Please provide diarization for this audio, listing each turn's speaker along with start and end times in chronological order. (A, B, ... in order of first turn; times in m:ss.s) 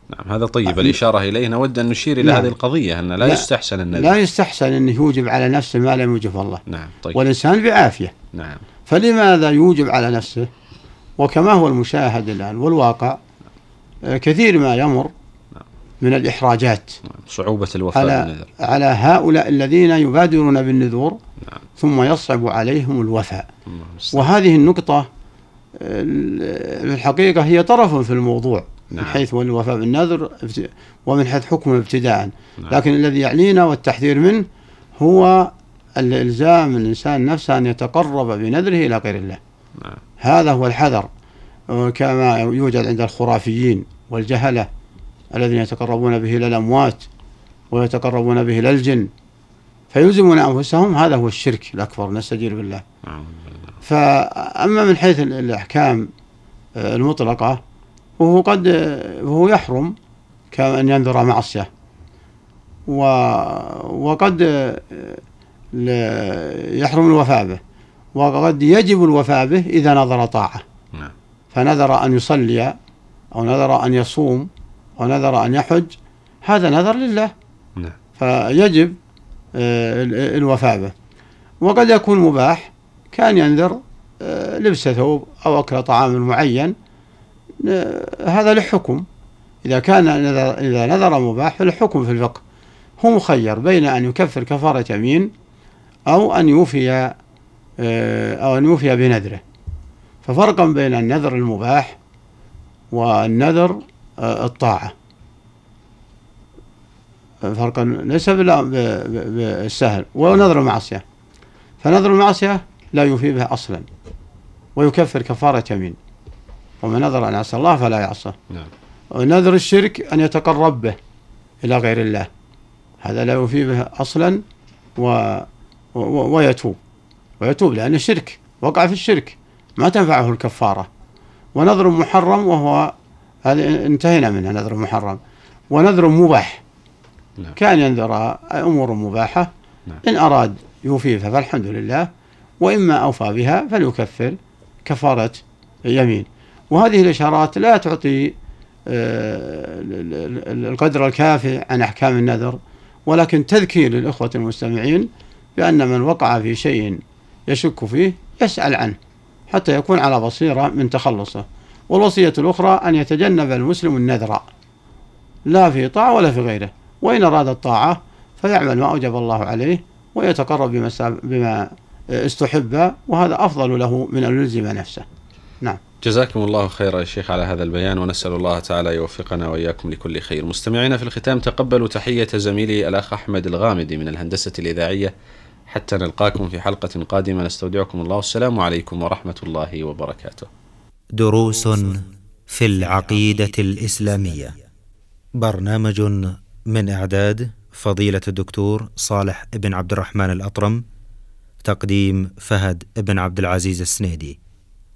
0:00.1-0:04.2 A
0:00.7-0:01.0 B
0:02.2-0:02.5 B
0:03.2-0:06.6 B
0:06.7-0:07.2 A
0:07.1-0:08.2 B
0:08.3-0:08.6 A
0:08.9-0:10.5 B
0:11.2-0:13.2 B
0:14.1-0:15.1 B
0:16.0-0:17.0 B
0:17.0-0:18.5 A
0:17.9-0:21.2 B
0:21.8-0:23.5 B
0:23.7-0:24.3 A
0:24.1-0:25.1 B
0:25.8-0:34.5 B
0:35.0-0:39.4 B
0:40.2-0:41.1 B
0:41.7-0:44.7 B
0:45.3-0:47.1 B
0:47.7-0:49.1 B
0:49.9-0:52.8 B
0:53.1-0:53.8 A
0:53.8-0:56.1 B
0:56.8-0:57.6 B
0:58.2-1:00.0 B
1:00.5-1:01.7 B
1:02.9-1:05.2 B
1:05.7-1:07.6 B
1:08.2-1:10.6 B
1:11.5-1:12.8 B
1:13.3-1:17.3 B
1:18.2-1:19.0 B
1:19.6-1:20.9 B
1:21.6-1:26.7 B
1:27.6-1:29.1 B
1:29.6-1:32.4 B
1:33.0-1:35.3 B
1:36.1-1:37.2 B
1:37.8-1:39.4 B
1:40.2-1:42.0 B
1:42.9-1:44.9 B
1:47.4-1:51.0 B
1:51.8-1:53.9 B
1:54.8-1:56.0 B
1:56.8-1:58.4 B
1:59.1-2:01.0 B
2:01.6-2:02.3 B
2:03.0-2:04.4 B
2:05.0-2:06.8 B
2:07.4-2:10.9 B
2:11.6-2:15.2 B
2:15.7-2:16.6 B
2:17.6-2:19.5 B
2:20.0-2:22.1 B
2:22.6-2:28.4 B
2:28.9-2:39.0 B
2:39.5-2:44.5 B
2:45.5-2:55.0 B
2:56.0-3:05.1 A
3:05.7-3:10.5 A
3:11.2-3:14.6 C
3:15.4-3:20.8 C
3:21.6-3:24.4 C